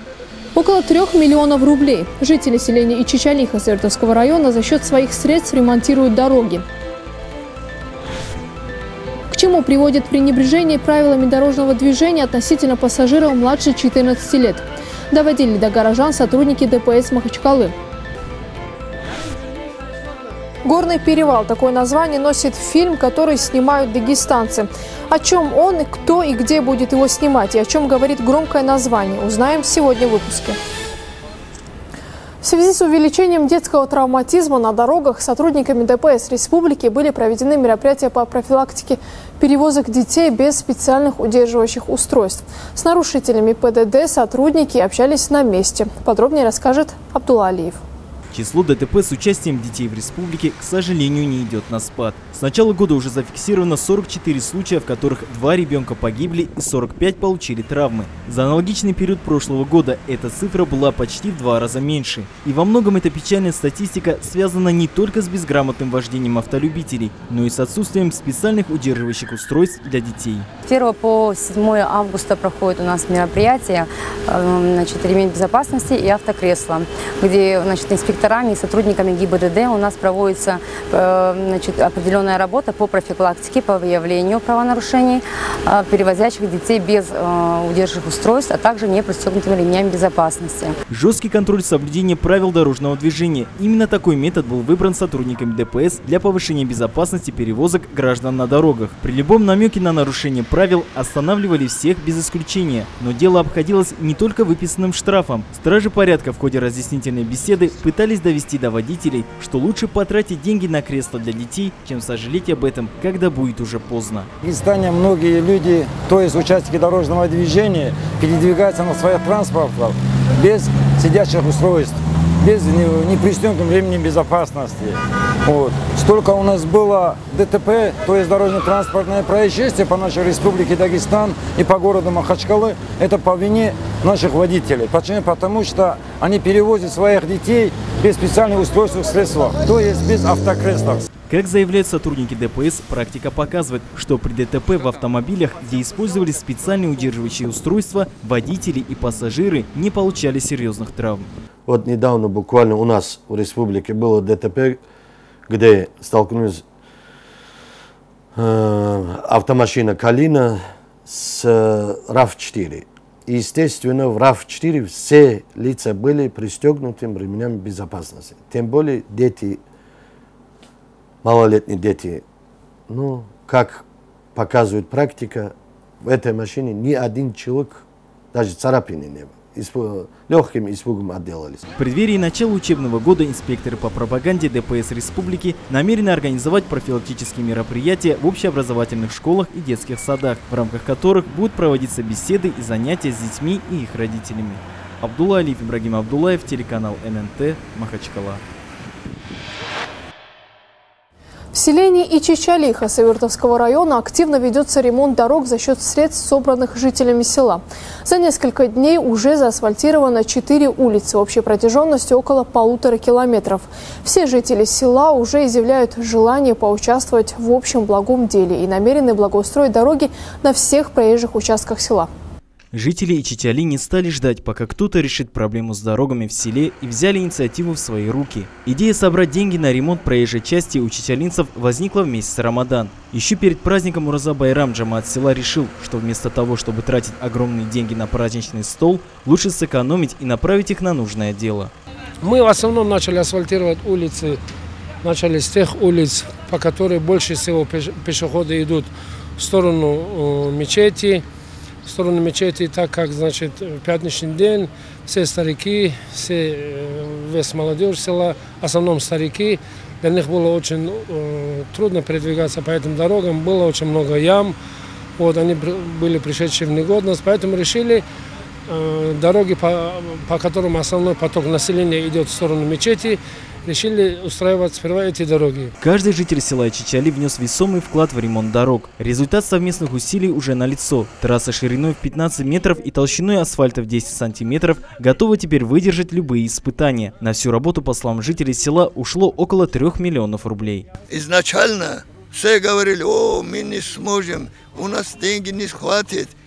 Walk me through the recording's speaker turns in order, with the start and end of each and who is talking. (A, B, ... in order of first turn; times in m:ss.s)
0:00.5-0:06.6 A
0:09.3-0:17.7 A
0:20.6-0:30.6 A
0:32.4-0:47.8 A
0:48.3-1:10.5 B
1:10.6-1:30.8 C
1:30.9-1:54.3 B
1:54.4-2:21.0 D
2:21.3-2:31.3 B
2:31.7-2:34.8 E
2:35.5-2:36.6 E
2:38.4-2:49.6 E
2:51.2-2:52.2 E
2:52.9-3:01.6 E
3:01.8-3:18.4 B
3:21.5-3:42.1 A
3:42.7-4:01.7 B
4:02.2-4:04.4 F
4:05.0-4:11.2 F
4:11.9-4:24.5 F
4:25.2-4:28.0 F
4:28.9-4:35.7 F
4:35.8-4:50.9 B
4:51.1-4:56.3 G